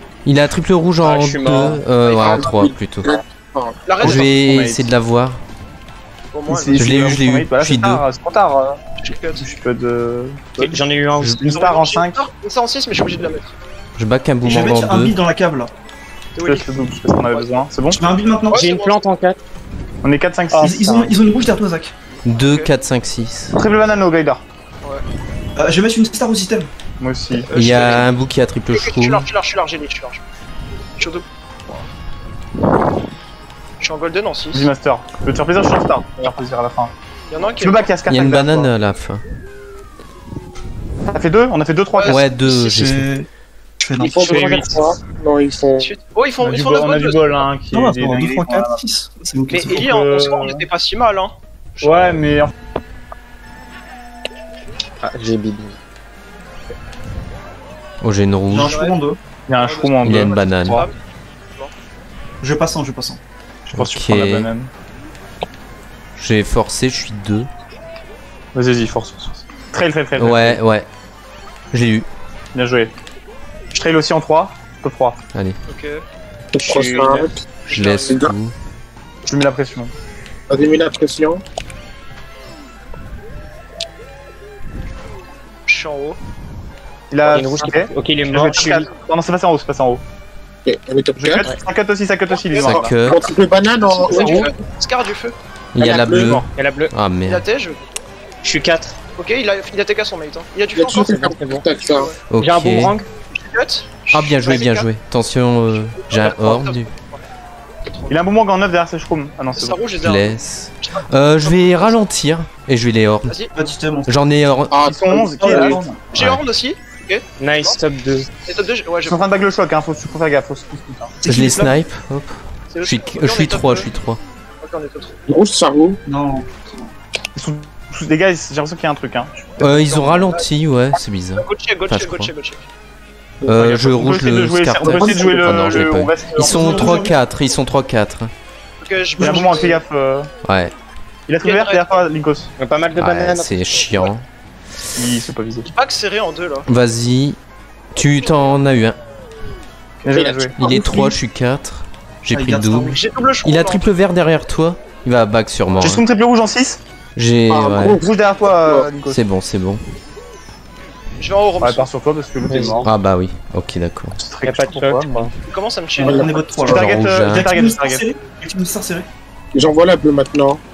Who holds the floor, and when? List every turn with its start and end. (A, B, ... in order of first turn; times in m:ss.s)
0:00.2-0:03.1 A
0:01.0-0:01.8 B
0:02.1-0:02.4 C
0:02.1-0:03.8 D
0:03.8-0:04.3 C
0:04.0-0:05.4 A
0:04.0-0:04.9 E
0:06.3-0:07.0 C
0:06.5-0:08.8 E
0:06.8-0:08.0 A
0:09.0-0:09.4 C
0:09.4-0:12.2 E
0:10.6-0:11.4 B
0:11.5-0:13.6 C
0:14.0-0:15.2 A
0:14.4-0:15.7 F
0:16.3-0:19.0 C
0:16.4-0:18.0 E
0:18.0-0:18.6 F
0:18.5-0:19.4 B
0:20.0-0:21.1 E
0:20.5-0:20.8 B
0:20.6-0:21.9 F
0:22.2-0:22.7 C
0:22.2-0:23.6 A
0:23.5-0:24.4 E
0:25.6-0:26.7 F
0:27.0-0:27.5 E
0:27.4-0:29.3 A
0:27.5-0:28.1 C
0:28.7-0:30.2 C
0:31.0-0:31.2 C
0:33.8-0:34.7 C
0:34.5-0:36.9 E
0:37.3-0:37.9 C
0:37.6-0:38.7 E
0:38.1-0:39.2 A
0:41.1-0:42.3 E
0:41.9-0:42.2 C
0:42.0-0:43.1 A
0:42.4-0:44.8 F
0:44.0-0:46.0 D
0:44.2-0:44.8 B
0:45.8-0:47.5 C
0:46.4-0:48.8 E
0:47.7-0:49.8 F
0:49.5-0:52.2 C
0:49.7-0:50.6 E
0:51.8-0:52.5 E
0:55.0-0:55.8 B
0:58.0-0:58.8 A
0:58.5-0:59.2 F
0:58.5-0:59.0 C
0:59.5-1:00.9 E
0:59.6-1:01.0 C
1:00.0-1:00.8 A
1:02.4-1:03.2 F
1:03.7-1:04.7 E
1:03.7-1:04.5 A
1:06.2-1:07.5 A
1:08.5-1:10.6 E
1:10.2-1:10.9 A
1:11.7-1:12.1 A
1:12.5-1:12.9 E
1:13.7-1:15.2 E
1:15.7-1:16.0 C
1:16.5-1:17.4 D
1:16.6-1:17.3 B
1:17.6-1:18.3 C
1:17.7-1:18.5 A
1:18.0-1:18.3 D
1:19.2-1:19.9 E
1:20.5-1:21.4 D
1:25.6-1:26.2 C
1:27.1-1:30.0 E
1:27.2-1:28.9 B
1:30.6-1:31.4 D
1:31.2-1:32.9 E
1:32.3-1:32.7 C
1:32.5-1:33.2 A
1:33.0-1:34.5 D
1:33.8-1:35.3 C
1:34.1-1:34.5 E
1:35.7-1:37.4 A
1:35.8-1:36.4 D
1:36.2-1:36.4 E
1:36.6-1:36.9 B
1:37.2-1:37.8 C
1:38.4-1:39.0 B
1:39.2-1:42.2 C
1:40.7-1:42.1 D
1:41.2-1:41.6 B
1:42.3-1:43.0 A
1:42.4-1:43.1 B
1:43.3-1:44.9 C
1:44.1-1:46.9 A
1:46.0-1:47.2 C
1:47.9-1:48.2 C
1:48.1-1:49.8 E
1:49.5-1:52.0 C
1:50.0-1:53.4 A
1:53.2-1:53.5 C
1:53.5-1:54.1 F
1:54.1-1:54.9 A
1:54.7-1:55.8 D
1:54.8-1:55.8 E
1:55.4-1:56.0 F
1:56.1-1:57.8 C
1:56.1-1:56.4 A
1:57.4-1:58.3 B
1:58.4-1:59.2 C
1:59.0-2:01.1 E
2:01.2-2:01.8 F
2:01.2-2:04.2 A
2:02.7-2:03.9 C
2:04.6-2:05.2 C
2:05.3-2:06.0 D
2:06.0-2:06.9 F
2:07.3-2:09.7 E
2:09.6-2:12.3 A
2:09.7-2:10.5 C
2:11.4-2:12.6 C
2:13.4-2:18.3 A
2:13.5-2:17.0 E
2:14.8-2:15.8 F
2:16.4-2:17.2 F
2:18.8-2:19.8 C
2:19.2-2:20.3 E
2:19.3-2:19.7 F
2:20.4-2:20.7 A
2:21.3-2:22.5 E
2:21.4-2:21.8 C
2:22.6-2:24.1 B
2:23.0-2:24.2 A
2:24.9-2:25.7 E
2:25.6-2:26.7 C
2:26.7-2:27.4 A
2:27.9-2:29.0 A
2:30.0-2:30.5 E
2:30.1-2:31.1 D
2:30.6-2:36.0 A
2:32.3-2:33.0 F
2:32.8-2:33.9 C
2:35.8-2:36.8 E
2:37.1-2:38.0 A
2:37.5-2:38.9 D
2:38.0-2:39.2 E
2:39.0-2:39.8 A
2:41.2-2:41.9 C
2:41.6-2:42.9 E
2:42.4-2:42.9 B
2:42.8-2:44.2 A
2:44.2-2:45.3 E
2:44.4-2:45.3 B
2:45.4-2:46.5 C
2:46.0-2:49.1 F
2:46.0-2:46.3 D
2:46.6-2:48.0 E
2:46.7-2:47.5 A
2:49.5-2:50.6 D